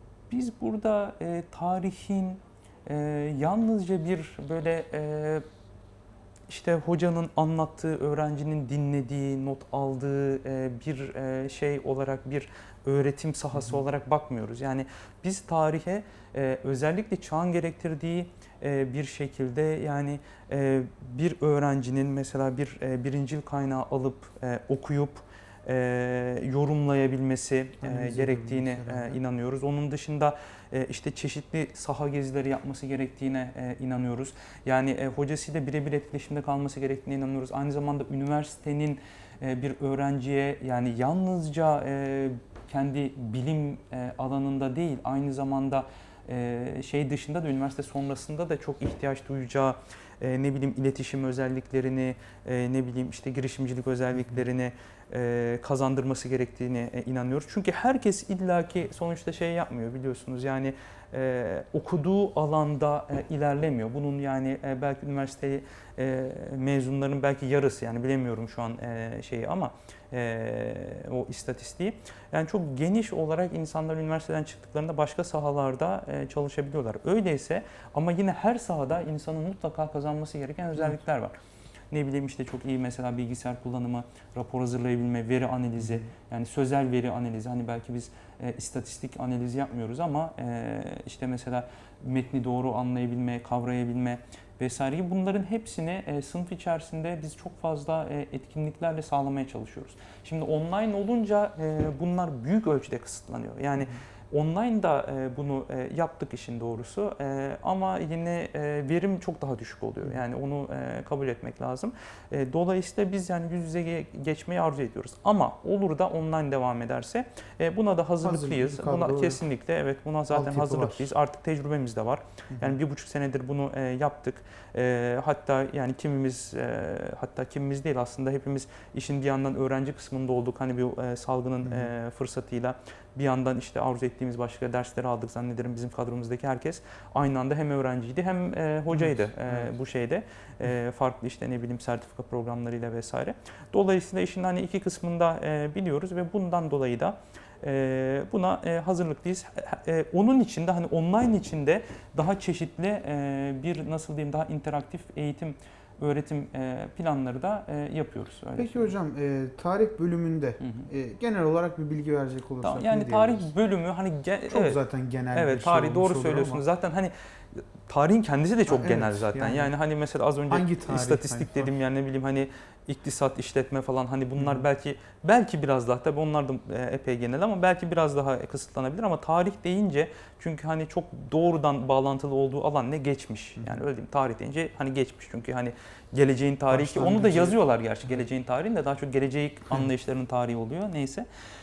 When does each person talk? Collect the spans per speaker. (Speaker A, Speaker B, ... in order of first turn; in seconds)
Speaker A: 0.3-5.4, 6.5-81.3, 81.9-158.9, 160.6-160.9, 162.6-164.8, 165.3-191.3
Speaker B: 27.8-29.2, 118.2-119.4, 120.3-121.1, 131.6-131.9, 138.9-139.6, 158.6-163.5, 164.5-166.6, 168.7-169.7, 170.5-171.8, 174.4-174.7, 186.7-187.6